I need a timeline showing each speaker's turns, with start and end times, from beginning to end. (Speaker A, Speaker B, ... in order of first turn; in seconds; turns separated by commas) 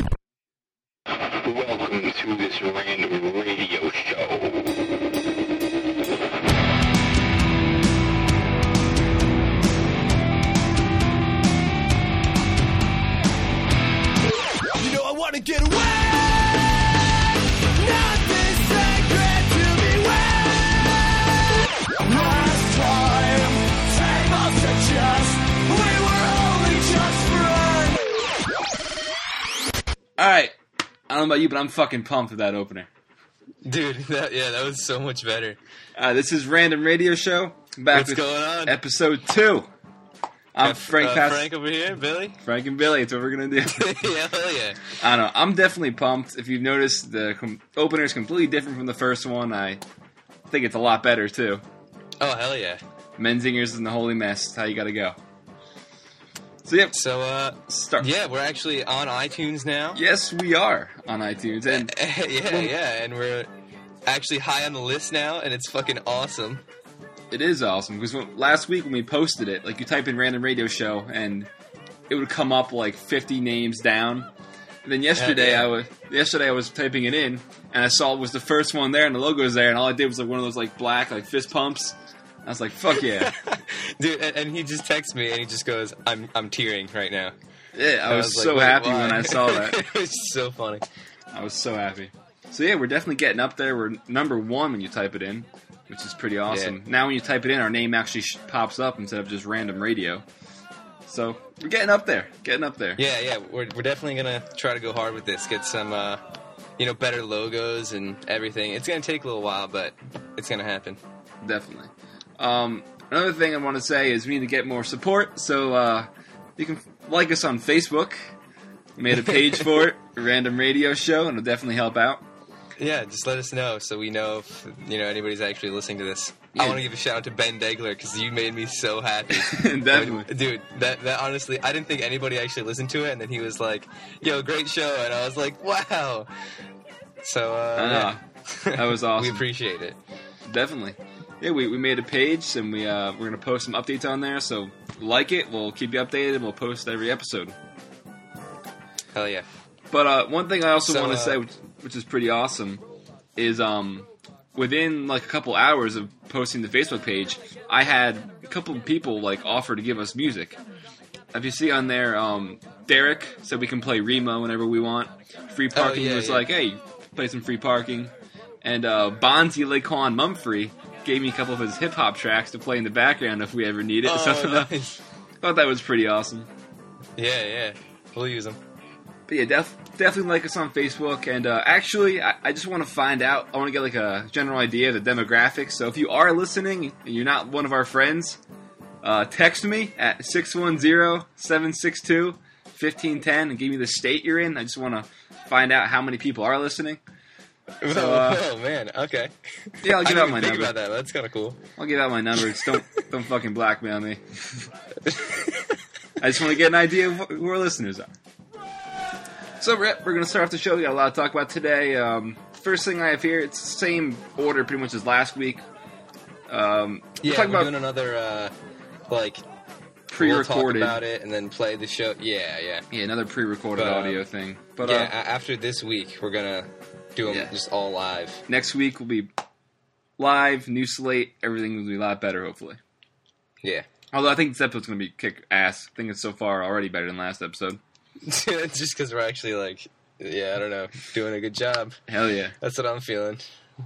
Speaker A: 1.1-4.8, Speaker B: 14.7-17.1, Speaker B: 17.7-21.0, Speaker B: 22.0-28.2, Speaker C: 30.2-30.5, Speaker C: 31.1-32.9, Speaker D: 33.6-35.6, Speaker C: 36.0-39.7, Speaker D: 37.9-38.8, Speaker C: 40.5-41.6, Speaker D: 40.6-42.4, Speaker C: 42.4-44.0, Speaker D: 43.7-44.8, Speaker C: 44.9-49.8, Speaker C: 50.5-51.6, Speaker D: 52.2-52.8, Speaker C: 53.2-55.2, Speaker C: 56.6-57.0, Speaker D: 56.9-60.0, Speaker C: 57.6-58.1, Speaker C: 59.9-61.9, Speaker D: 61.6-63.5, Speaker C: 62.4-62.7, Speaker D: 64.0-66.6, Speaker C: 67.3-71.5, Speaker C: 72.1-74.3, Speaker C: 74.8-83.3, Speaker D: 75.1-75.7, Speaker D: 82.9-87.3, Speaker C: 87.7-89.8, Speaker D: 88.0-90.8, Speaker C: 91.3-100.2, Speaker D: 96.5-96.8, Speaker C: 101.0-103.0, Speaker D: 103.0-106.2, Speaker D: 106.8-111.0, Speaker C: 111.4-118.2, Speaker C: 119.0-122.3, Speaker D: 119.1-119.9, Speaker D: 122.8-136.3, Speaker C: 126.5-126.8, Speaker C: 129.3-130.3, Speaker D: 137.2-140.0, Speaker C: 137.7-139.4, Speaker C: 140.4-147.5, Speaker D: 149.1-149.5, Speaker C: 149.9-152.8, Speaker D: 150.8-151.4, Speaker C: 153.3-160.6, Speaker C: 161.3-168.1, Speaker D: 165.7-166.5, Speaker C: 168.6-174.7, Speaker D: 174.0-175.0, Speaker C: 175.4-176.5, Speaker D: 177.2-178.6, Speaker C: 179.3-188.4, Speaker C: 189.0-197.0, Speaker D: 197.8-201.6, Speaker C: 197.9-198.5, Speaker C: 199.8-200.8, Speaker C: 201.8-204.7, Speaker D: 202.3-203.0, Speaker D: 205.1-205.5, Speaker C: 206.2-208.1, Speaker C: 209.6-215.6, Speaker C: 216.5-217.7, Speaker D: 217.2-218.5, Speaker D: 219.1-219.4, Speaker D: 220.1-222.8, Speaker C: 220.1-221.0, Speaker C: 222.9-225.1, Speaker D: 223.7-224.3, Speaker D: 224.8-228.4, Speaker C: 227.3-227.5, Speaker C: 228.5-229.3, Speaker C: 230.2-232.8, Speaker C: 234.1-237.8, Speaker D: 238.2-241.9, Speaker C: 242.1-242.5, Speaker D: 242.6-243.4